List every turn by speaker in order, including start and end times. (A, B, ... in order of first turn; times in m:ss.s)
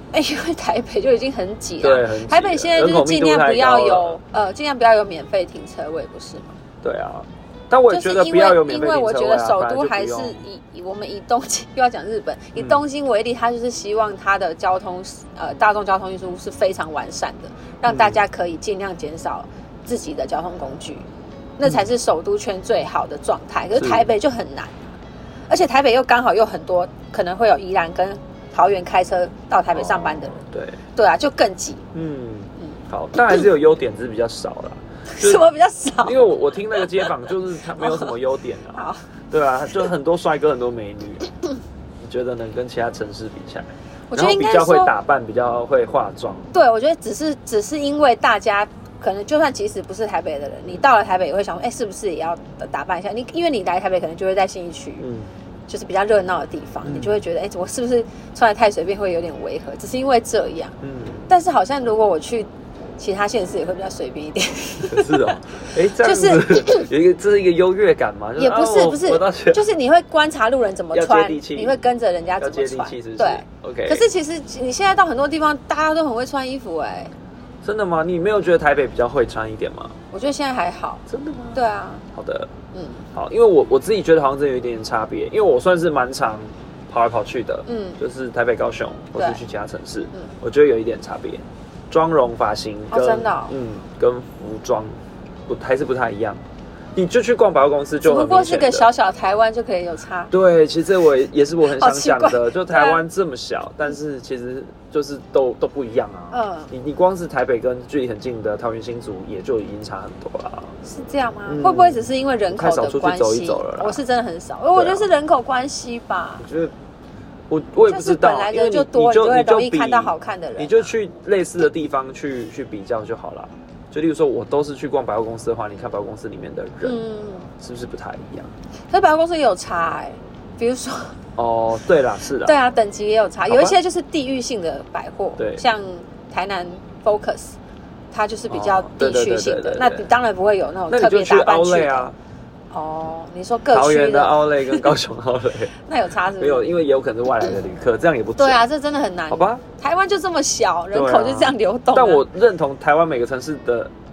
0:00.1-0:06.6 A
0:01.8-0:04.2 B
0:06.8-0:10.4 B
0:07.9-0:21.1 A
0:12.6-0:12.8 B
0:17.9-0:18.2 B
0:21.6-0:24.8 A
0:23.8-0:24.1 B
0:25.5-0:30.4 A
0:29.7-0:30.8 B
0:31.0-0:31.8 A
0:31.9-0:35.4 B
0:35.2-0:37.1 A
0:36.0-0:41.3 B
0:37.8-0:38.1 A
0:38.8-0:39.0 A
0:42.0-0:46.5 B
0:44.1-0:44.9 A
0:46.5-0:55.0 A
0:55.0-0:55.3 B
0:55.7-1:00.8 A
0:56.8-0:57.2 B
1:00.8-1:01.3 B
1:01.3-1:05.2 A
1:04.8-1:09.6 B
1:06.0-1:06.9 A
1:08.4-1:17.1 A
1:10.9-1:11.8 B
1:12.4-1:14.0 B
1:17.6-1:20.0 B
1:20.1-1:21.0 A
1:21.1-1:21.6 B
1:21.5-1:22.0 A
1:22.1-1:22.5 B
1:22.7-1:23.0 A
1:23.1-1:35.0 B
1:27.7-1:28.0 A
1:32.9-1:33.5 A
1:35.5-1:36.4 B
1:37.0-1:38.9 B
1:38.0-1:40.3 A
1:40.3-1:50.8 B
1:41.7-1:43.0 A
1:46.3-1:46.7 A
1:50.8-1:56.5 A
1:51.5-1:54.0 B
1:54.7-1:55.1 B
1:56.4-1:56.7 B
1:57.5-2:07.0 B
1:57.9-2:00.9 A
2:06.8-2:07.5 A
2:07.5-2:08.5 B
2:08.9-2:11.2 A
2:11.4-2:12.6 B
2:12.4-2:17.6 A
2:13.5-2:13.8 B
2:15.4-2:15.6 B
2:18.1-2:22.1 A
2:18.5-2:20.1 B
2:20.9-2:22.2 B
2:22.7-2:24.9 A
2:23.7-2:25.8 B
2:25.8-2:26.7 A
2:26.4-2:28.6 B
2:28.4-2:32.2 A
2:29.3-2:29.6 B
2:30.9-2:33.9 B